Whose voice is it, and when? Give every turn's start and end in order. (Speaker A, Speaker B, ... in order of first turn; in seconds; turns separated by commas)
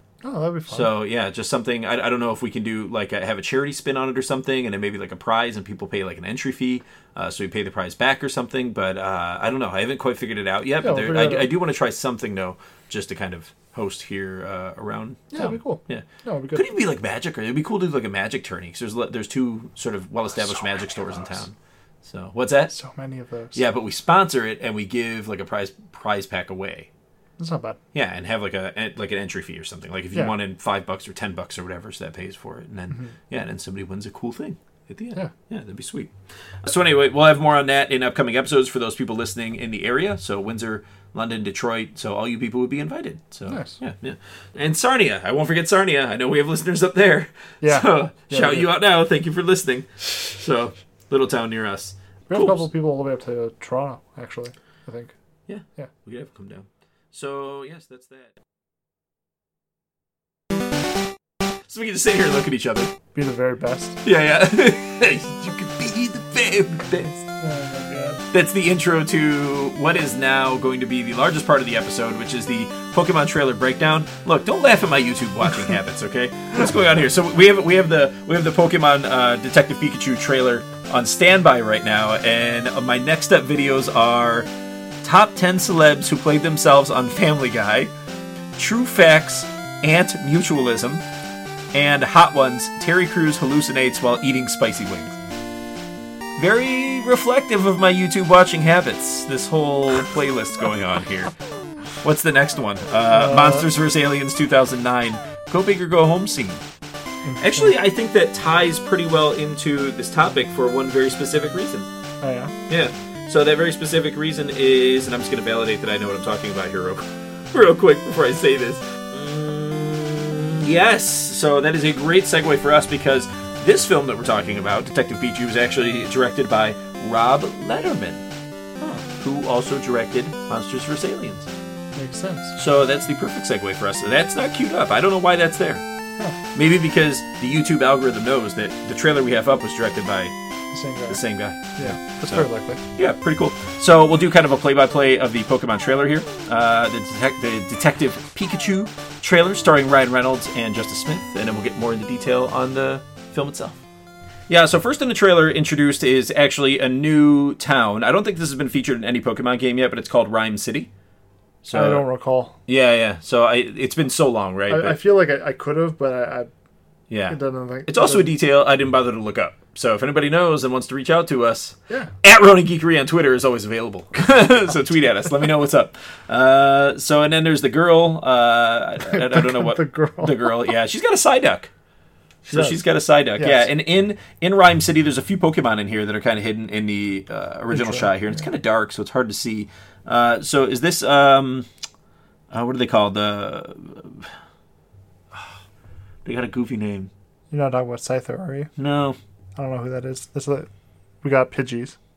Speaker A: 0.2-0.9, Speaker B: 0.7-22.7, Speaker A: 10.8-11.5, Speaker A: 15.3-16.7, Speaker A: 20.8-21.1, Speaker A: 22.7-23.6, Speaker B: 23.5-26.9, Speaker A: 27.4-27.8, Speaker B: 27.9-52.6, Speaker A: 43.5-43.8, Speaker A: 47.6-48.7, Speaker A: 52.3-55.1, Speaker B: 55.5-58.3, Speaker B: 61.7-62.9, Speaker A: 63.1-64.0, Speaker B: 64.0-67.2, Speaker A: 67.4-68.2, Speaker B: 68.3-84.5, Speaker B: 85.0-87.9, Speaker B: 88.5-91.0, Speaker B: 91.7-95.2, Speaker B: 96.3-101.3, Speaker B: 102.0-106.6, Speaker A: 103.1-103.7, Speaker A: 107.2-107.8, Speaker B: 107.4-111.9, Speaker A: 112.2-112.5, Speaker B: 112.7-128.2, Speaker B: 129.0-131.5, Speaker A: 131.9-132.5, Speaker B: 132.6-135.8, Speaker B: 136.5-140.3, Speaker A: 140.7-141.2, Speaker B: 141.1-142.4, Speaker A: 141.8-142.8, Speaker B: 142.9-153.8, Speaker B: 154.5-160.9, Speaker B: 161.6-162.0, Speaker A: 161.7-162.6, Speaker B: 162.7-165.0, Speaker A: 164.7-166.5, Speaker B: 167.1-181.7, Speaker A: 167.3-168.3, Speaker A: 179.1-180.6, Speaker B: 182.4-191.7, Speaker A: 182.5-182.8, Speaker A: 183.4-183.7, Speaker A: 187.7-188.1, Speaker B: 192.5-194.3, Speaker B: 196.2-197.1, Speaker A: 197.5-198.7, Speaker B: 198.8-199.2, Speaker A: 199.6-200.7, Speaker A: 201.2-201.9